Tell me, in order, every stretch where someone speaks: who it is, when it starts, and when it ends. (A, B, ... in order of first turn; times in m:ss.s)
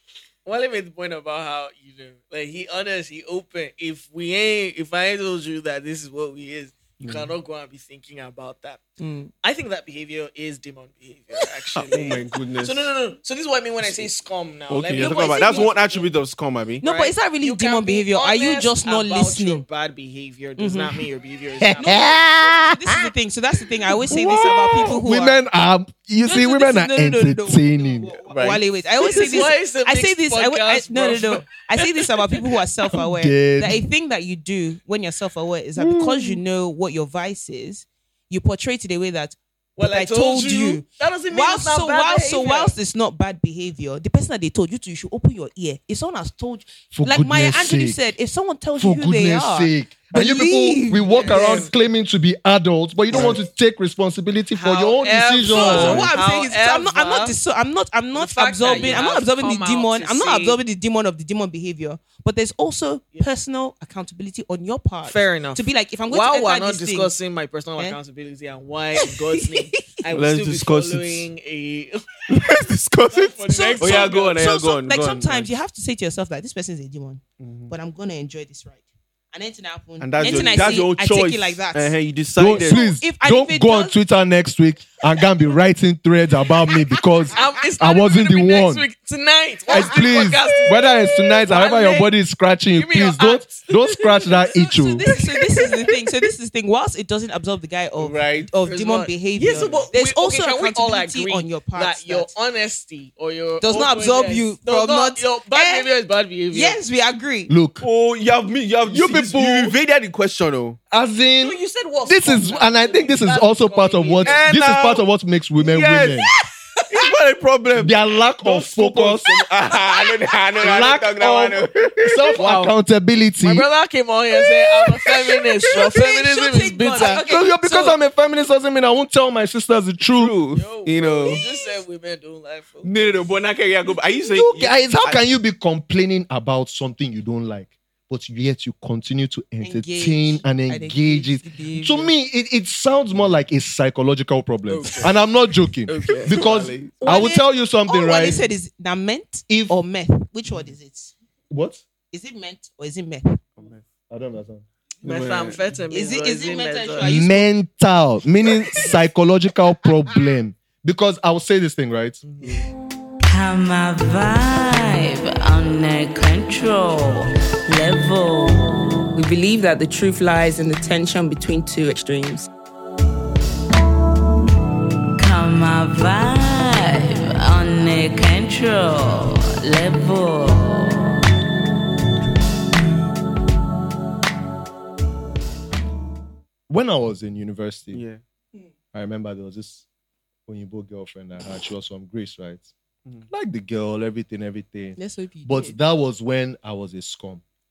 0:00.4-0:08.8 A
0:07.0-0:07.3 B
0:09.0-0:09.3 C
0:09.4-0:16.1 A
0:11.7-0:12.9 B
0:14.7-0:16.8 B
0:15.0-0:15.7 C
0:16.8-0:19.6 C
0:16.8-0:22.1 A
0:20.6-0:20.9 C
0:21.6-0:23.0 D
0:21.8-0:25.4 C
0:24.0-0:28.2 D
0:26.2-0:51.7 C
0:28.3-0:28.6 B
0:29.0-0:32.5 A
0:32.9-0:33.8 D
0:35.8-0:36.4 D
0:39.8-0:42.7 A
0:46.9-0:48.0 D
0:48.8-0:56.1 D
0:51.0-0:51.7 A
0:53.1-0:53.4 A
0:54.5-0:57.4 A
0:55.5-1:07.1 C
0:58.1-1:00.6 A
1:05.0-1:12.2 A
1:09.0-1:09.8 C
1:10.1-1:11.3 B
1:12.3-1:15.5 B
1:13.1-1:14.3 A
1:13.5-1:24.0 C
1:17.4-1:17.7 B
1:20.0-1:22.8 B
1:22.4-1:28.9 D
1:27.3-1:32.0 A
1:29.7-1:35.0 D
1:29.7-1:30.0 C
1:31.5-1:32.0 C
1:32.7-1:35.9 A
1:34.9-1:42.3 C
1:38.0-1:38.5 B
1:38.6-1:46.8 A
1:43.6-1:45.9 C
1:46.5-1:47.5 C
1:47.5-1:47.9 D
1:47.8-1:50.8 B
1:48.9-1:49.8 D
1:50.9-1:56.3 D
1:51.4-1:54.4 A
1:54.2-1:55.0 B
1:55.6-1:56.3 B
1:56.9-2:02.7 B
1:57.7-1:59.4 D
2:00.6-2:03.7 D
2:02.4-2:02.7 A
2:03.4-2:07.2 A
2:05.7-2:08.0 C
2:07.0-2:10.4 D
2:10.1-2:11.4 B
2:10.5-2:13.3 A
2:12.8-2:15.3 B
2:14.3-2:28.5 D
2:19.6-2:22.1 C
2:24.7-2:25.3 A
2:25.9-2:26.4 A
2:26.4-2:26.7 B
2:27.0-2:31.1 C
2:29.5-2:29.7 D
2:31.5-2:31.8 D
2:32.1-2:33.4 C
2:33.6-2:33.8 B
2:34.1-2:34.6 D
2:35.0-2:35.6 B
2:35.0-2:37.1 A
2:35.9-2:37.5 C
2:37.0-2:42.2 D
2:42.2-2:42.7 A
2:43.3-2:49.0 E
2:49.1-2:52.5 C
2:55.2-3:01.2 E
3:06.7-3:08.0 D
3:07.9-3:08.2 B
3:08.9-3:09.9 D
3:10.5-3:12.7 D
3:13.3-3:17.4 D
3:15.0-3:15.8 C